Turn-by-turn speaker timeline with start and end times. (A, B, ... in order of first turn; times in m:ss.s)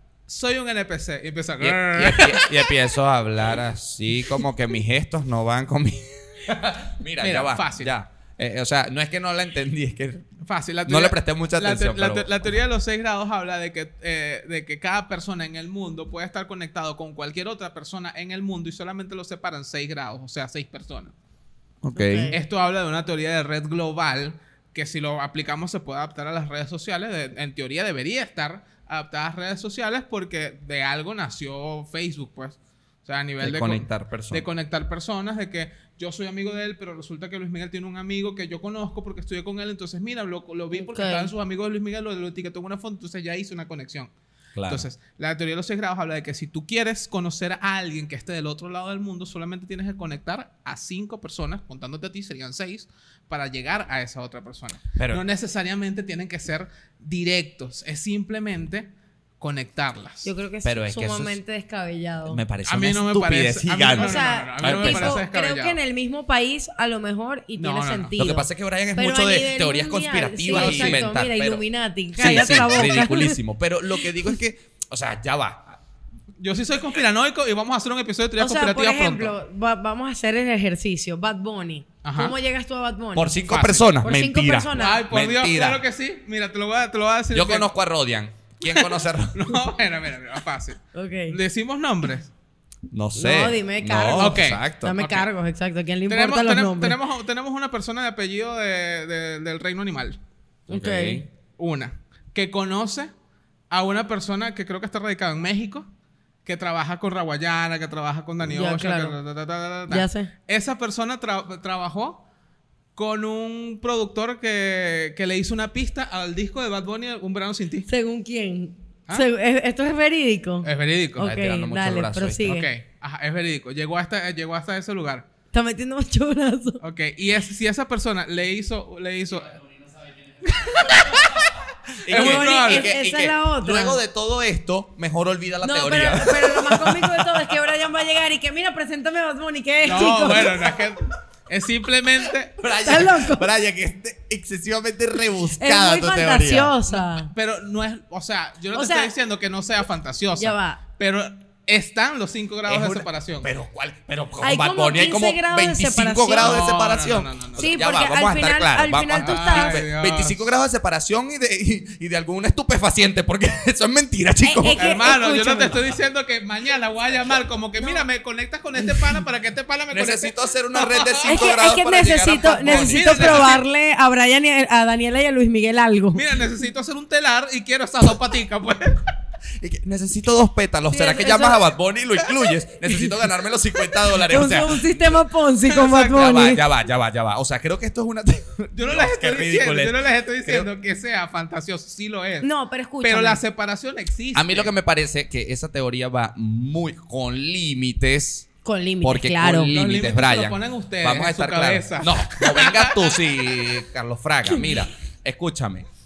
0:00.3-0:02.7 A
0:01.6-0:10.3 B
0:07.2-0:07.9 A
0:10.4-0:21.1 A
0:10.9-0:12.6 B
0:21.8-0:22.3 B
0:21.9-0:22.4 C
0:22.3-0:44.1 A
0:33.4-0:34.4 B
0:40.7-0:41.3 C
0:44.6-0:44.9 B
0:44.7-0:58.9 A
0:55.0-0:55.2 B
0:59.4-1:00.3 A
1:00.2-1:02.4 C
1:00.6-1:01.4 B
1:02.3-1:05.2 B
1:02.6-1:05.8 A
1:03.9-1:13.4 C
1:07.6-1:08.2 A
1:08.2-1:11.6 B
1:10.5-1:11.1 A
1:12.1-1:15.8 B
1:16.4-1:19.4 A
1:18.4-1:23.4 C
1:22.0-1:22.4 A
1:23.1-1:25.8 B
1:23.5-1:23.9 A
1:24.0-1:25.1 C
1:24.7-1:27.7 A
1:27.3-1:29.5 B
1:28.7-1:32.3 A
1:30.9-1:31.4 C
1:32.9-1:35.0 B
1:33.2-1:37.0 C
1:34.2-1:35.3 A
1:36.1-1:40.2 A
1:40.7-1:41.2 C
1:40.7-1:41.3 B
1:41.6-1:43.1 A
1:43.7-1:45.9 A
1:46.4-1:52.2 A
1:48.4-1:49.2 C
1:49.9-1:50.3 C
1:53.0-1:57.9 A
1:57.9-2:02.7 C
2:00.6-2:01.3 A
2:01.2-2:02.5 B
2:02.4-2:05.2 A
2:05.5-2:06.8 C
2:06.8-2:09.6 A
2:10.4-2:11.5 A
2:12.0-2:17.4 B
2:12.1-2:14.0 C
2:12.1-2:12.9 A
2:15.6-2:20.7 C
2:19.8-2:22.6 A
2:22.6-2:26.7 B
2:22.8-2:23.5 C
2:25.6-2:27.3 C
2:26.9-2:33.5 A
2:28.7-2:29.1 C
2:30.4-2:30.8 C
2:32.7-2:44.9 B
2:34.4-2:36.7 C
2:36.4-2:37.8 A
2:37.6-2:39.8 C
2:39.2-2:40.5 A
2:44.4-2:45.8 C
2:44.8-2:51.4 A
2:49.9-2:53.6 B
2:51.2-2:56.3 C
2:52.6-2:53.6 A
2:56.1-2:59.1 A
2:59.6-3:05.2 B
3:00.9-3:01.6 C
3:04.1-3:06.6 C
3:05.6-3:06.4 A
3:06.1-3:10.7 B
3:08.8-3:12.5 A
3:12.4-3:13.4 C
3:13.0-3:14.7 A
3:14.4-3:18.5 B
3:18.6-3:19.7 C
3:19.0-3:25.9 B
3:19.7-3:23.2 A